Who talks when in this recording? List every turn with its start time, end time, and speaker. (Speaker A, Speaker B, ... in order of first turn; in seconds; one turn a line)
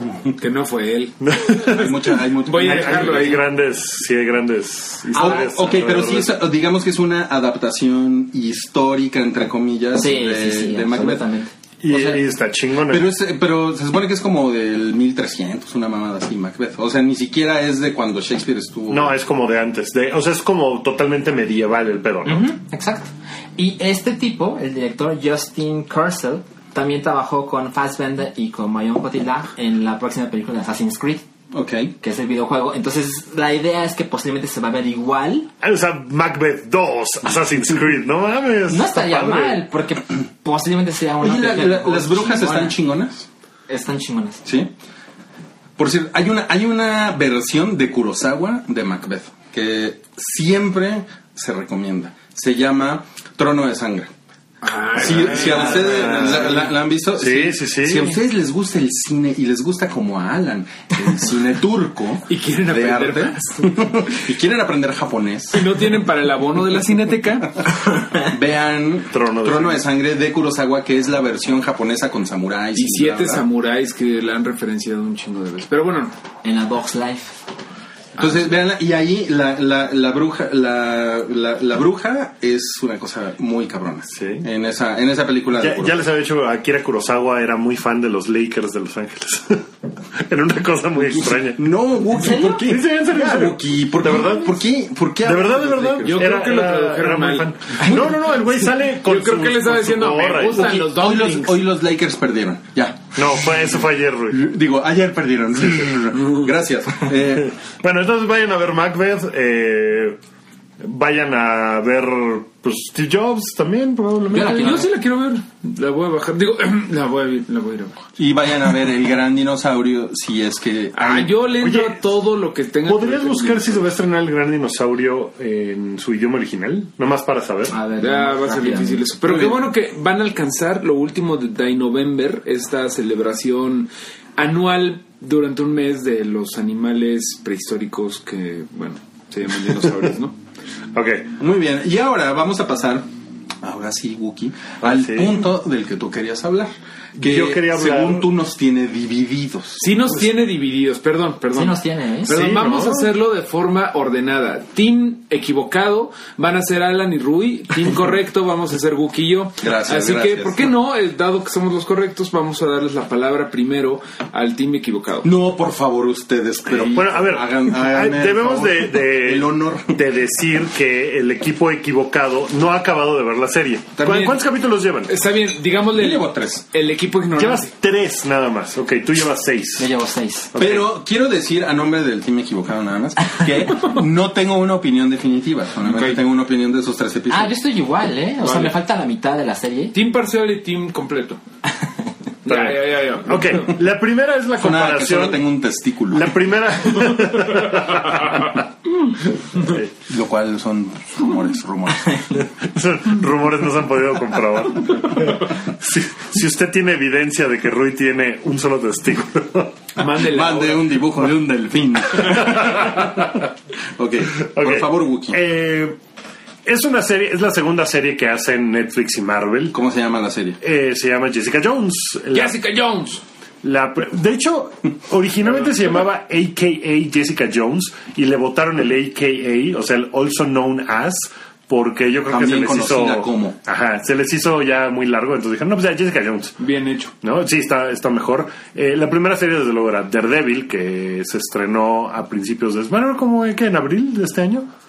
Speaker A: 0.3-3.5
Speaker B: 1.2-6.4
Speaker C: 1.7-3.4
Speaker D: 5.1-5.5
Speaker C: 5.2-11.3
Speaker D: 9.9-11.5
Speaker B: 11.8-13.1
Speaker C: 11.9-12.2
Speaker C: 12.8-19.1
Speaker B: 18.9-22.5
Speaker D: 22.3-31.2
Speaker C: 31.5-31.9
Speaker D: 32.0-35.5
Speaker B: 35.6-39.6
Speaker D: 38.7-42.8
Speaker C: 41.2-43.3
Speaker D: 43.7-44.4
Speaker C: 44.5-44.7
Speaker C: 45.8-54.1
Speaker A: 54.6-56.7
Speaker C: 55.0-65.6
Speaker B: 55.0-56.6
Speaker B: 57.2-58.1
Speaker A: 62.3-64.1
Speaker A: 65.5-67.6
Speaker C: 68.1-73.5
Speaker B: 69.1-69.8
Speaker A: 72.8-76.1
Speaker D: 76.4-77.3
Speaker C: 78.2-86.0
Speaker B: 84.1-84.5
Speaker B: 85.6-89.7
Speaker B: 90.2-91.6
Speaker C: 91.0-96.3
Speaker D: 92.2-92.6
Speaker B: 92.3-94.6
Speaker B: 95.2-100.8
Speaker A: 96.0-101.6
Speaker C: 100.6-103.5
Speaker B: 103.2-104.5
Speaker C: 104.3-107.5
Speaker B: 107.8-110.2
Speaker B: 110.8-114.8
Speaker D: 114.3-114.9
Speaker A: 114.3-118.0
Speaker C: 118.2-121.4
Speaker A: 120.9-123.9
Speaker B: 121.6-122.0
Speaker B: 122.9-127.8
Speaker D: 127.7-129.1
Speaker A: 128.0-140.4
Speaker C: 129.2-129.6
Speaker B: 140.9-141.3
Speaker C: 141.4-143.1
Speaker C: 143.6-149.9
Speaker B: 144.8-145.5
Speaker B: 147.2-148.3
Speaker A: 149.8-165.3
Speaker D: 151.5-152.4
Speaker B: 152.3-153.1
Speaker C: 159.6-160.7
Speaker C: 165.2-170.0
Speaker B: 166.7-175.1
Speaker A: 174.0-174.4
Speaker A: 175.1-177.7
Speaker C: 175.9-176.6
Speaker B: 177.3-179.9
Speaker D: 179.8-180.5
Speaker B: 180.5-180.9
Speaker C: 180.6-187.6
Speaker A: 185.8-186.2
Speaker D: 187.3-189.9
Speaker A: 188.4-188.8
Speaker A: 189.9-191.4
Speaker A: 192.4-193.8
Speaker B: 192.5-195.4
Speaker C: 194.6-196.3
Speaker B: 196.1-198.6
Speaker B: 199.6-199.9
Speaker C: 200.1-202.4
Speaker B: 202.4-209.8
Speaker A: 210.0-210.9
Speaker C: 210.2-213.4
Speaker B: 212.3-213.3
Speaker C: 214.0-215.4
Speaker B: 214.5-216.0
Speaker B: 216.7-219.8
Speaker C: 219.7-220.6
Speaker B: 220.6-222.6
Speaker A: 222.3-223.2
Speaker B: 223.6-236.6
Speaker C: 232.3-233.6
Speaker A: 236.6-237.1
Speaker B: 237.2-244.7